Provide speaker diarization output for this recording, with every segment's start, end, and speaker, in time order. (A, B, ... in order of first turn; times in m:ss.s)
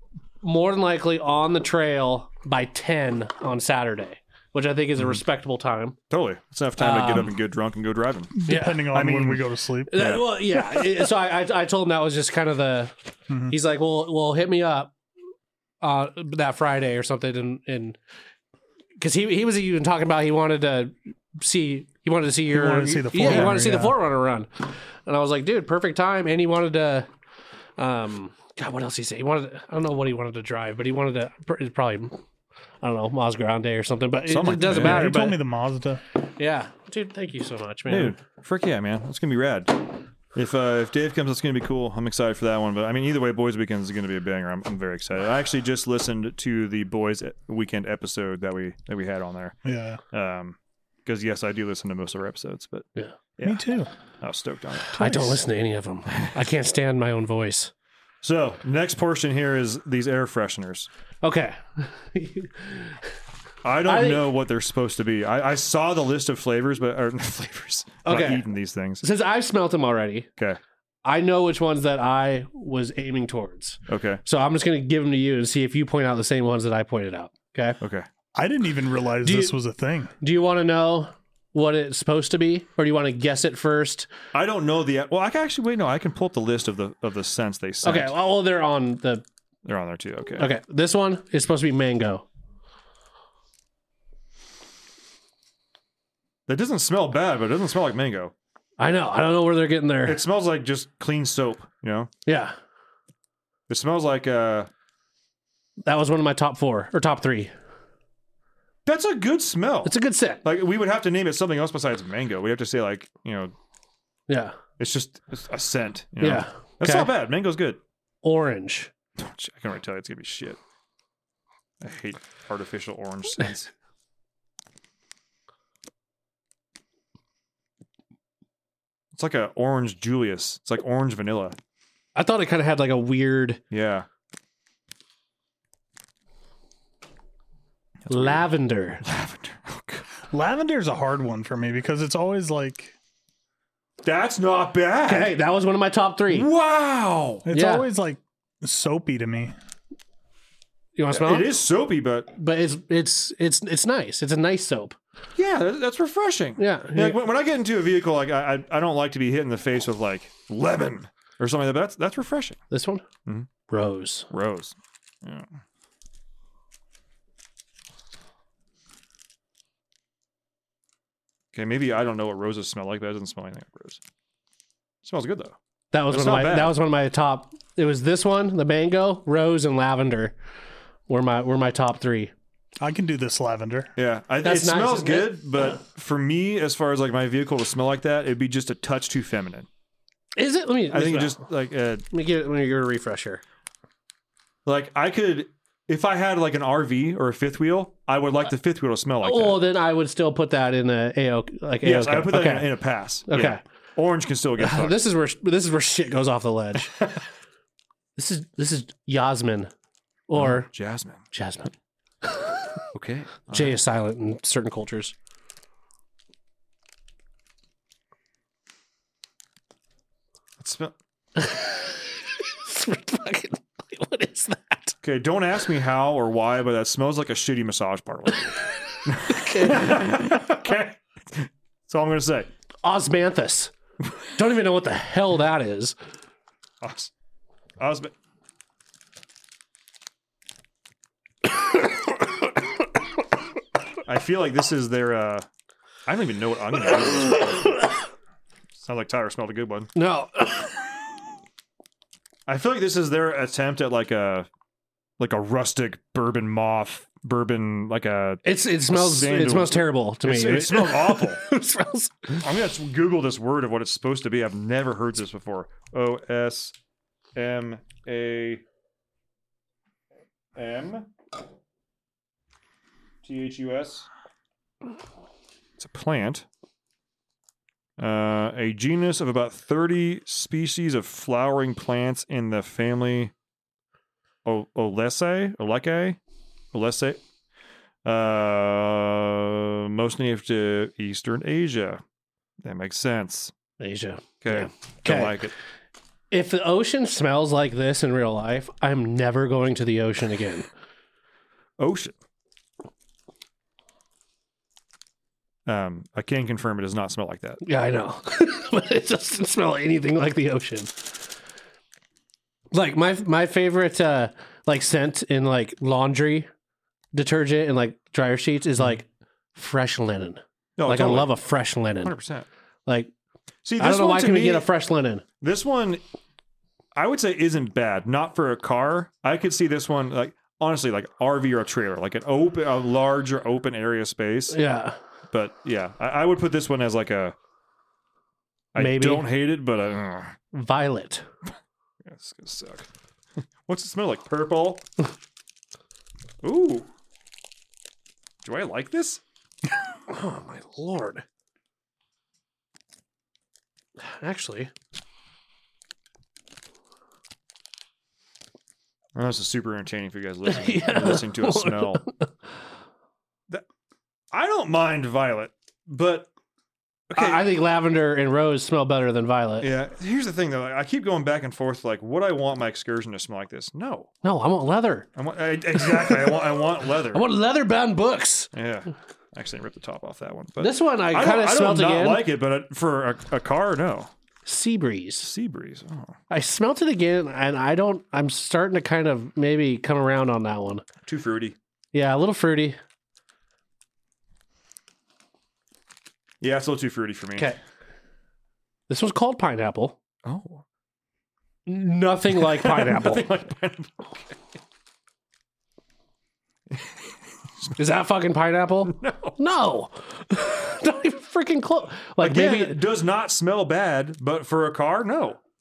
0:00.4-0:06.0 A
0:06.1-0:10.2 B
0:06.8-0:07.3 A
0:08.3-0:10.0 C
0:08.5-0:08.9 A
0:09.9-0:12.9 A
0:13.3-0:13.5 C
0:13.5-0:14.9 A
0:15.8-0:18.0 A
0:19.0-0:27.1 A
0:22.5-0:24.0 C
0:23.2-0:23.6 B
0:27.8-0:32.2 A
0:32.8-0:35.4 A
0:34.3-0:35.1 B
0:34.6-0:36.0 C
0:36.2-0:38.2 A
0:37.9-0:49.6 B
0:49.6-0:50.0 C
0:50.1-0:53.6 B
0:53.4-0:53.9 C
0:54.2-0:55.4 B
0:54.9-0:57.7 A
0:58.2-1:00.9 B
1:01.2-1:03.1 A
1:03.6-1:09.0 B
1:03.8-1:04.3 A
1:08.0-1:08.4 A
1:09.0-1:10.3 A
1:11.0-1:17.8 A
1:13.9-1:14.2 B
1:17.8-1:18.1 B
1:18.3-1:20.1 C
1:19.2-1:19.5 A
1:20.2-1:24.1 A
1:24.3-1:28.1 B
1:27.8-1:29.2 A
1:29.6-1:30.5 B
1:30.4-1:32.2 A
1:36.5-1:38.3 B
1:38.8-1:40.2 A
1:40.0-1:42.1 B
1:42.2-1:42.5 A
1:43.7-1:44.7 B
1:45.8-1:47.5 A
1:48.8-1:53.5 B
1:49.8-1:50.4 A
1:54.3-1:54.6 A
1:54.8-1:57.8 B
1:56.2-1:57.1 A
1:58.2-1:58.9 A
1:59.2-2:00.6 B
2:01.8-2:03.7 B
2:09.1-2:11.6 B
2:12.1-2:13.6 A
2:13.7-2:14.0 B
2:18.0-2:18.4 B
2:18.1-2:19.0 A
2:19.0-2:20.0 B
2:20.3-2:22.9 C
2:24.0-2:25.3 B
2:25.0-2:26.5 A
2:26.3-2:27.4 B
2:27.4-2:29.5 C
2:27.5-2:27.9 A
2:31.0-2:31.5 A
2:31.1-2:32.3 B
2:32.3-2:35.0 A
2:35.4-2:42.6 B
2:36.6-2:37.2 A
2:42.7-2:43.0 A
2:43.7-2:44.3 A
2:44.3-2:45.4 B
2:51.5-2:54.0 B
2:55.0-2:55.6 B
2:55.9-3:00.3 A
2:56.1-2:56.7 B
3:01.1-3:02.3 A
3:02.8-3:03.9 C
3:04.0-3:09.7 B
3:04.4-3:05.4 A
3:10.4-3:11.4 A
3:10.9-3:12.0 B
3:12.1-3:13.4 A
3:14.6-3:19.6 B
3:19.2-3:22.7 A
3:21.8-3:25.0 B
3:23.3-3:23.6 A
3:24.6-3:26.9 A
3:26.9-3:27.2 B
3:28.2-3:29.7 A
3:30.3-3:30.7 A
3:30.3-3:31.2 B
3:31.3-3:32.7 A
3:32.9-3:33.8 B
3:33.5-3:35.1 A
3:40.6-3:40.9 B
3:41.4-3:45.0 A
3:45.0-3:52.5 B
3:49.3-3:50.0 A
3:52.8-3:53.7 A
3:54.4-3:56.0 A
3:56.8-3:57.1 B
3:57.8-3:58.1 B
4:04.0-4:05.4 B
4:06.0-4:07.9 B
4:08.8-4:09.9 B
4:09.9-4:10.7 A
4:12.5-4:14.5 B
4:15.2-4:21.4 B
4:18.4-4:22.4 A
4:22.4-4:26.7 B
4:27.3-4:28.6 B
4:30.6-4:31.1 B
4:33.2-4:34.1 B
4:35.8-4:36.4 B
4:38.0-4:43.3 B
4:44.4-4:46.2 B
4:46.7-4:47.2 B
4:48.0-4:52.0 B
4:52.6-4:53.5 B
4:53.8-4:55.4 A
4:54.4-4:55.5 B
4:56.3-5:00.7 A
5:01.8-5:02.1 B
5:05.6-5:07.6 B
5:07.6-5:11.1 A
5:12.7-5:16.5 A
5:17.1-5:22.1 A
5:20.8-5:21.3 B
5:22.0-5:22.4 B
5:23.6-5:24.6 B
5:23.8-5:25.2 A
5:25.4-5:26.0 B
5:26.9-5:34.6 B
5:34.5-5:35.0 A
5:35.3-5:37.3 B
5:38.7-5:40.4 B
5:38.8-5:39.2 A
5:40.5-5:41.2 A
5:42.0-5:42.9 B
5:43.6-5:44.8 B
5:46.4-5:46.9 B
5:48.4-5:49.2 B
5:50.1-5:51.2 A
5:54.0-5:54.7 A
5:59.1-6:02.0 B
6:00.5-6:02.3 A
6:04.3-6:06.3 B
6:07.1-6:07.5 B
6:07.1-6:09.7 A
6:09.6-6:14.1 B
6:14.2-6:15.1 A
6:15.2-6:17.2 B
6:15.8-6:16.4 A
6:17.1-6:18.5 A
6:18.5-6:24.1 B
6:20.6-6:22.2 A
6:24.4-6:25.3 A
6:25.2-6:26.2 B
6:26.3-6:30.8 A
6:31.0-6:31.6 B
6:31.9-6:32.8 A
6:36.4-6:37.5 B
6:38.9-6:40.0 A
6:40.2-6:40.6 B
6:41.6-6:43.3 A
6:42.5-6:44.3 B
6:47.8-6:52.8 A
6:48.9-6:49.4 B
6:52.2-6:55.4 B